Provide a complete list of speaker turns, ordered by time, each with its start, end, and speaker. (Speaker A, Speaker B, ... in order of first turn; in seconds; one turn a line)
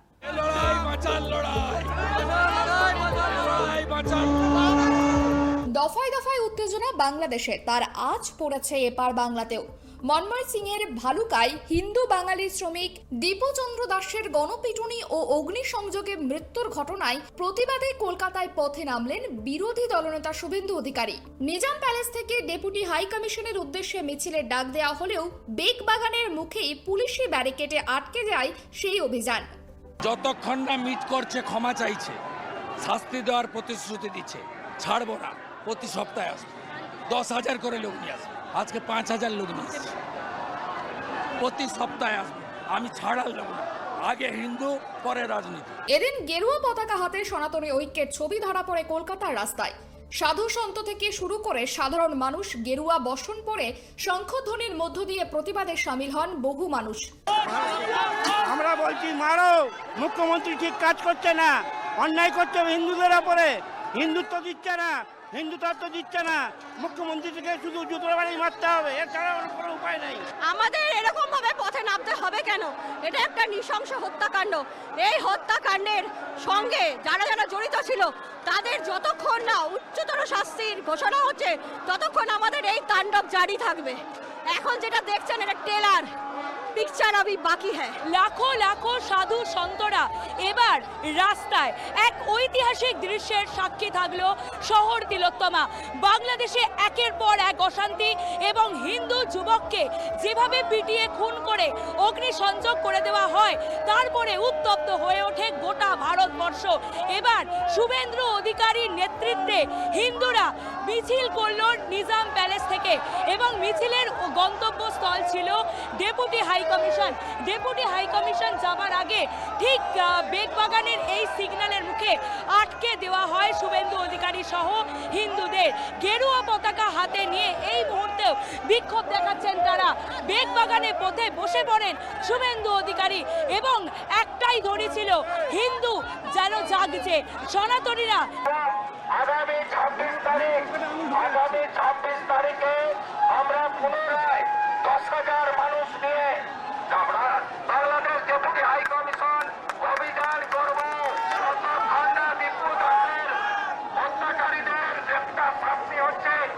Speaker A: 0.3-4.7
Speaker B: 5.8-29.5
Speaker A: 30.0-32.2
Speaker A: 32.8-40.0
Speaker A: 41.4-45.8
Speaker B: 45.9-57.1
Speaker C: 58.4-70.2
Speaker D: 70.4-86.1
Speaker D: 86.7-88.0
Speaker E: 88.1-138.3
Speaker F: 139.2-146.3
Speaker A: 141.1-141.6
Speaker F: 146.9-153.4
Speaker A: 147.1-149.9
Speaker A: 151.1-152.1
Speaker F: 153.9-156.4
Speaker A: 156.0-156.4